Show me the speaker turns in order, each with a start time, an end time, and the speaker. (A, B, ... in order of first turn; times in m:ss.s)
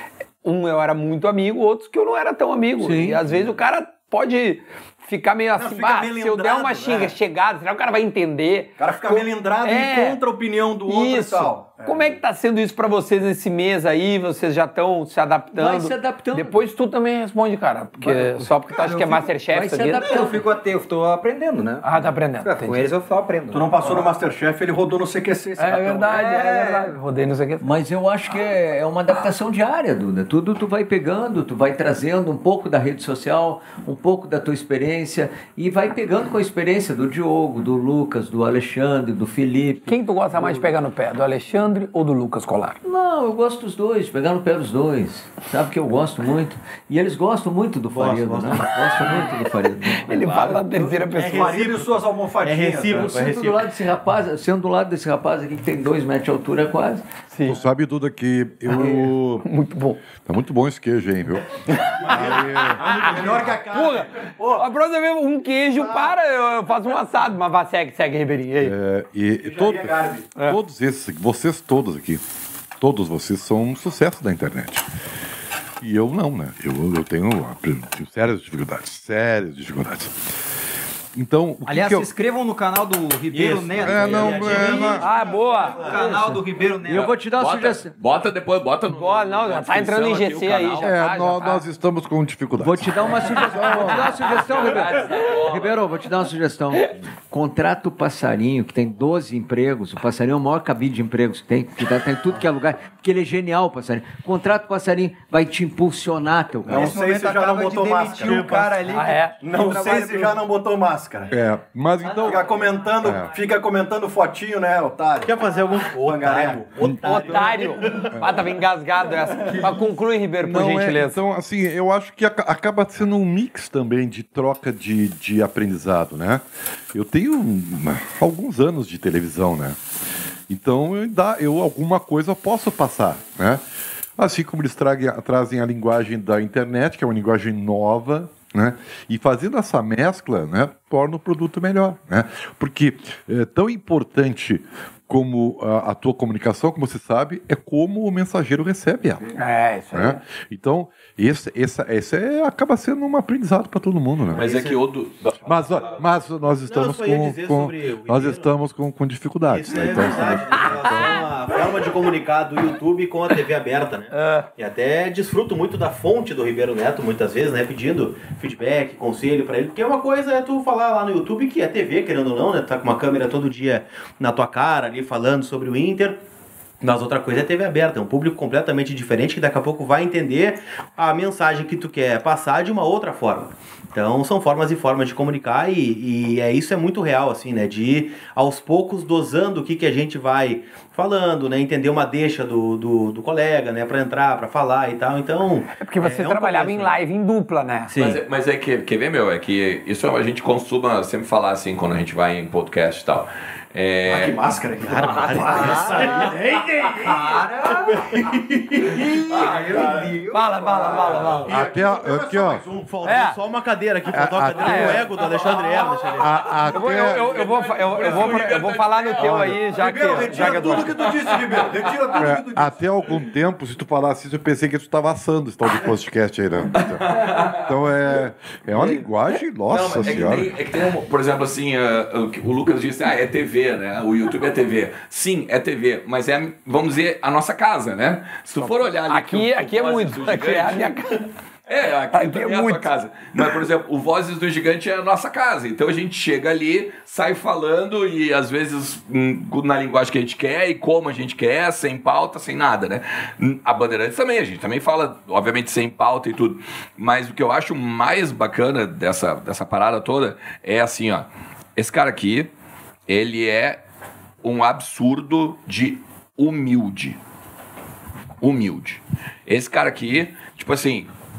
0:00.4-0:10.2 A
0:02.8-0:03.2 B
0:05.5-0:07.1 C
0:08.8-0:12.2 C
0:10.8-0:20.1 A
0:15.5-0:16.6 B
0:18.0-0:20.5 B
0:20.0-0:21.9 D
0:21.8-0:22.9 A
0:22.4-0:24.1 D
0:23.5-0:26.2 C
0:25.6-0:27.7 A
0:27.6-0:40.6 B
0:39.9-0:42.8 A
0:42.8-0:50.2 B
0:47.9-0:49.4 E
0:50.0-0:51.6 A
0:50.1-0:50.7 F
0:51.1-0:53.7 E
0:51.1-0:53.1 C
0:52.9-0:57.0 B
0:57.3-0:57.6 A
0:57.4-0:59.4 G
0:58.7-1:00.0 A
1:00.2-1:02.9 G
1:02.0-1:04.7 C
1:02.0-1:08.7 A
1:02.8-1:03.5 E
1:05.8-1:06.1 C
1:08.6-1:12.2 G
1:09.4-1:10.3 C
1:12.8-1:14.8 G
1:15.8-1:20.3 G
1:21.1-1:22.1 G
1:21.6-1:25.0 D
1:23.3-1:26.1 E
1:23.8-1:25.0 G
1:24.5-1:26.0 C
1:25.0-1:25.8 A
1:25.7-1:27.2 D
1:26.0-1:27.9 B
1:27.3-1:31.0 F
1:28.9-1:31.6 A
1:30.8-1:34.3 G
1:32.6-1:46.9 B
1:34.1-1:35.8 F
1:46.7-1:51.3 C
1:46.7-1:50.3 D
1:48.9-1:49.4 A
1:51.3-1:53.3 G
1:52.2-1:58.0 C
1:55.2-1:58.1 E
1:57.0-2:01.2 A
2:00.4-2:09.8 G
2:10.5-2:13.6 G
2:14.2-2:29.3 G
2:29.3-2:30.2 A
2:29.9-2:34.4 G
2:34.3-2:36.0 F
2:34.4-2:34.8 E
2:35.4-2:41.2 G
2:36.6-2:38.5 E
2:39.4-2:56.2 E
2:44.1-2:44.5 A
2:56.8-3:16.9 E
3:15.8-3:18.0 A
3:17.9-3:18.2 E
3:18.0-3:24.4 F
3:24.0-3:30.1 C
3:24.8-3:26.4 E
3:25.5-3:26.0 D
3:27.0-3:27.9 D
3:29.0-3:30.7 D
3:29.7-3:30.1 E
3:30.3-3:31.5 A
3:30.9-3:31.4 E
3:31.2-3:33.2 C
3:31.4-3:32.6 G
3:32.9-3:36.7 E
3:33.0-3:33.4 A
3:34.1-3:35.1 G
3:34.6-3:35.1 A
3:36.2-3:37.2 G
3:36.7-3:41.1 A
3:36.8-3:41.6 F
3:39.2-3:39.5 G
3:39.8-3:42.8 C
3:42.1-3:50.5 G
3:46.7-3:47.8 F
3:49.7-4:01.0 F
3:49.9-3:50.2 C
3:58.6-4:01.3 A
4:01.7-4:22.5 F
4:02.1-4:02.9 A
4:23.1-4:23.8 F
4:24.4-4:27.2 F
4:28.4-4:31.1 F